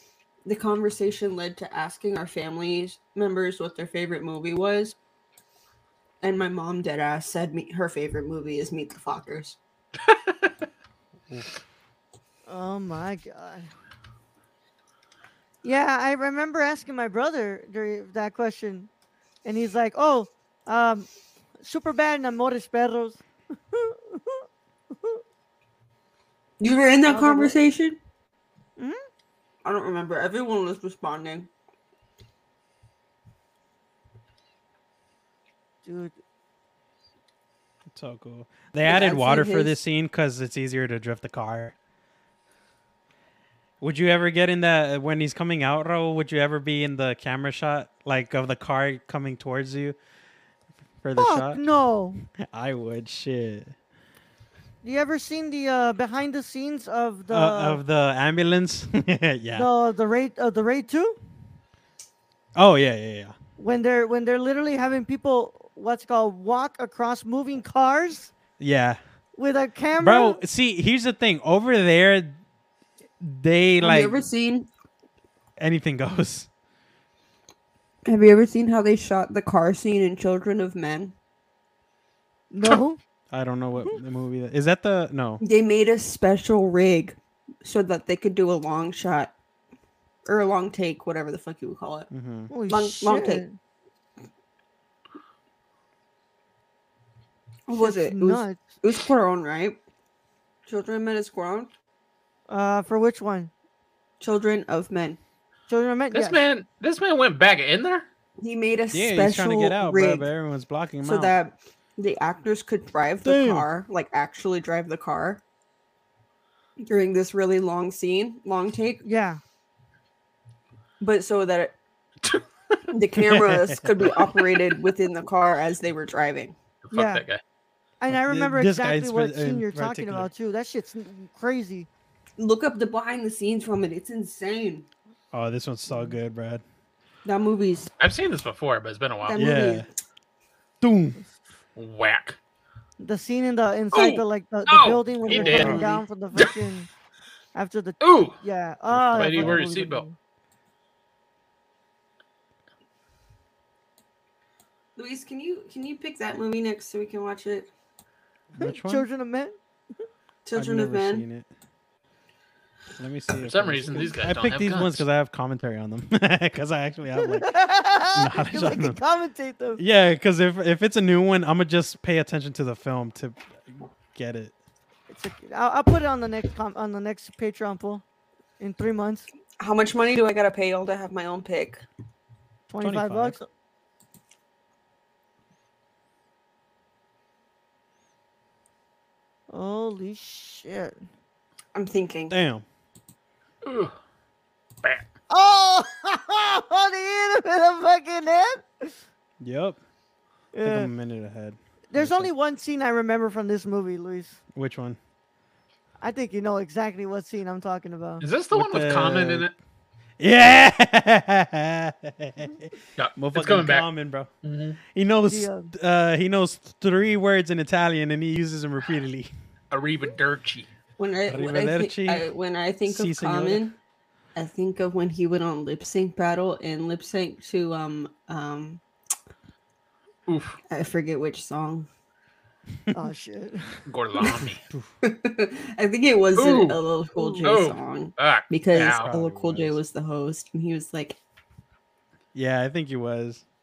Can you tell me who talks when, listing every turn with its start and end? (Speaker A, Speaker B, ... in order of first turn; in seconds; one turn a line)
Speaker A: 0.4-5.0
Speaker A: 6.2-9.6
Speaker B: 10.1-10.5
Speaker C: 12.5-13.7
Speaker C: 15.6-18.9
Speaker C: 19.4-21.1
Speaker C: 21.6-25.2
Speaker A: 26.6-28.0
Speaker C: 27.1-27.6
Speaker A: 29.6-31.5
Speaker C: 35.8-36.1
Speaker D: 37.9-41.7
Speaker A: 38.8-39.8
Speaker D: 43.8-50.0
Speaker D: 51.0-51.6
Speaker C: 51.1-52.2
Speaker D: 52.2-53.7
Speaker C: 54.8-57.8
Speaker D: 57.3-59.7
Speaker C: 59.5-61.2
Speaker D: 62.5-63.3
Speaker C: 63.6-68.3
Speaker D: 68.6-69.0
Speaker C: 69.3-70.4
Speaker D: 70.0-72.4
Speaker D: 73.2-74.2
Speaker A: 73.8-74.7
Speaker D: 75.6-76.5
Speaker A: 78.0-81.1
Speaker C: 82.5-83.0
Speaker D: 83.3-85.4
Speaker A: 85.4-89.3
Speaker A: 90.2-92.1
Speaker D: 92.1-92.5
Speaker C: 92.5-93.5
Speaker A: 92.7-93.4
Speaker A: 97.7-99.8
Speaker C: 97.8-98.6
Speaker A: 100.7-101.7
Speaker C: 102.5-103.5
Speaker A: 104.2-105.2
Speaker C: 105.7-106.4
Speaker B: 106.1-108.0
Speaker A: 108.4-110.3
Speaker D: 108.9-111.3
Speaker A: 111.0-115.4
Speaker D: 113.2-113.6
Speaker A: 116.8-119.0
Speaker C: 119.0-119.4
Speaker A: 121.0-121.7
Speaker B: 122.2-122.8
Speaker A: 122.9-126.6
Speaker D: 123.1-124.1
Speaker B: 126.8-127.4
Speaker C: 126.9-127.2
Speaker C: 128.0-131.9
Speaker D: 128.1-130.3
Speaker A: 132.4-134.8
Speaker D: 135.3-136.6
Speaker A: 137.2-137.9
Speaker B: 138.0-139.4
Speaker A: 139.2-139.9
Speaker D: 139.3-139.9
Speaker D: 140.8-141.2
Speaker B: 141.8-142.4
Speaker C: 143.0-146.9
Speaker B: 143.9-145.8
Speaker A: 145.3-146.0
Speaker D: 145.6-145.8
Speaker C: 147.5-150.1
Speaker B: 148.0-148.4
Speaker D: 148.9-149.7
Speaker B: 149.2-150.0
Speaker A: 154.9-157.7
Speaker D: 158.5-159.1
Speaker C: 158.6-159.6
Speaker A: 160.4-161.2
Speaker D: 160.5-161.5
Speaker D: 163.0-167.6
Speaker B: 163.4-165.0
Speaker C: 167.2-169.8
Speaker D: 168.1-169.0
Speaker D: 169.8-174.5
Speaker C: 175.1-178.0
Speaker C: 178.6-179.3
Speaker A: 179.6-181.8
Speaker C: 182.7-183.4
Speaker D: 182.8-183.4
Speaker C: 189.5-190.9
Speaker A: 191.7-192.3
Speaker D: 192.3-192.6
Speaker B: 193.6-193.9
Speaker C: 195.3-198.9
Speaker D: 199.4-199.8
Speaker C: 200.5-200.9
Speaker D: 200.6-202.3
Speaker C: 201.9-204.4
Speaker D: 204.5-205.0
Speaker C: 206.0-208.2
Speaker B: 208.2-209.5
Speaker D: 208.5-209.5
Speaker D: 210.2-214.3
Speaker B: 213.0-213.9
Speaker B: 214.4-214.8
Speaker D: 214.9-219.3
Speaker C: 215.2-215.7
Speaker B: 219.7-220.7
Speaker A: 221.0-223.8
Speaker D: 221.3-222.3
Speaker D: 222.8-223.6
Speaker A: 224.3-228.8
Speaker B: 230.3-230.6
Speaker A: 230.7-231.9
Speaker C: 232.9-233.8
Speaker B: 233.8-234.6
Speaker A: 235.0-241.2
Speaker B: 236.3-236.8
Speaker C: 237.2-237.6
Speaker B: 237.4-239.1
Speaker D: 238.7-239.8
Speaker D: 242.3-243.4